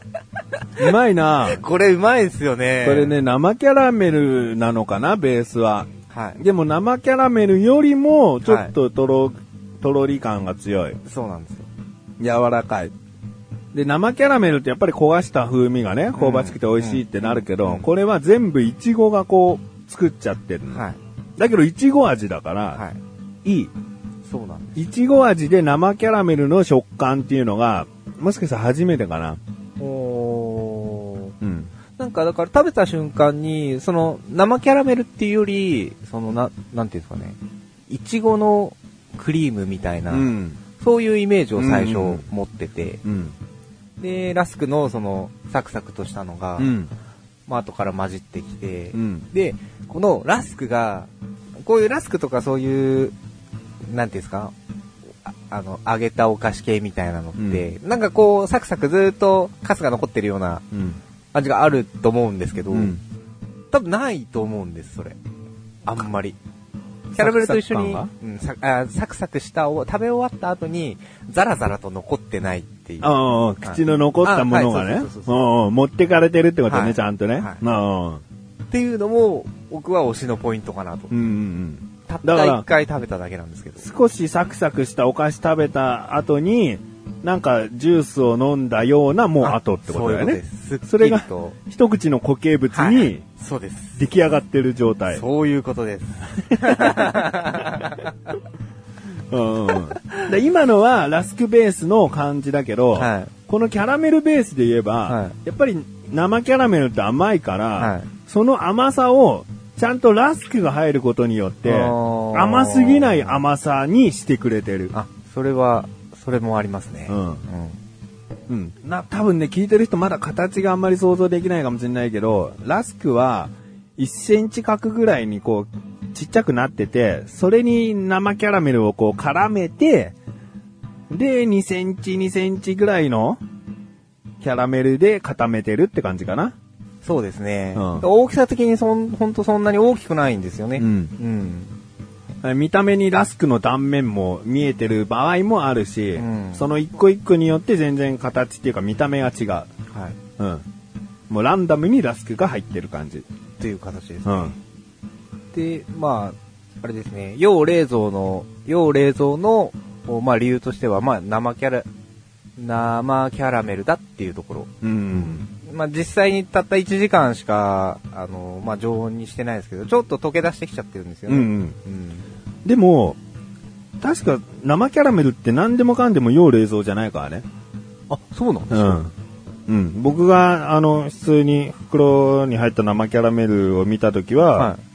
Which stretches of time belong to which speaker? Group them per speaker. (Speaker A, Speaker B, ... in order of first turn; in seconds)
Speaker A: 0.8-1.6, 2.8-11.0, 12.2-12.9, 13.7-20.8, 21.4-22.8, 23.4-23.7, 24.8-29.4, 31.4-31.7, 40.1-40.6, 41.6-42.2, 43.0-43.4, 46.6-46.9, 48.9-49.3, 57.4-57.6, 60.7-61.0, 62.7-63.0, 67.2-68.1, 73.0-78.2, 81.1-82.6, 83.8-93.2, 94.0-95.2, 96.6-97.2, 99.3-114.9, 117.1-117.4, 118.5-130.2, 131.1-133.4, 134.4-136.5, 137.8-138.1, 140.8-141.1, 142.4-149.7, 150.4-150.7, 151.3-153.2, 154.2-154.6, 164.8-165.5, 171.3-171.8, 172.7-173.2, 174.0-177.5, 178.7-179.1, 179.7-184.7
Speaker B: 1.4-3.2, 6.1-6.4, 8.4-8.7, 11.1-11.7, 16.1-17.9, 20.7-21.0, 24.3-24.8, 29.8-31.3, 32.0-37.4, 37.9-43.0, 44.0-46.7, 47.5-51.1, 51.6-53.1, 53.9-54.5, 55.3-60.6, 61.3-63.0, 63.7-65.2, 65.9-66.4, 67.1-75.5, 76.7-77.6, 78.7-81.1, 82.1-83.9, 89.4-91.6, 92.7-94.0, 95.1-98.3, 100.0-100.3, 103.0-103.3, 105.1-105.3, 107.8-108.1, 111.7-113.4, 114.9-117.8, 137.0-141.8, 146.2-146.7, 149.9-150.2, 153.6-154.6, 155.5-161.9, 162.6-164.7, 165.5-172.3, 178.1-179.0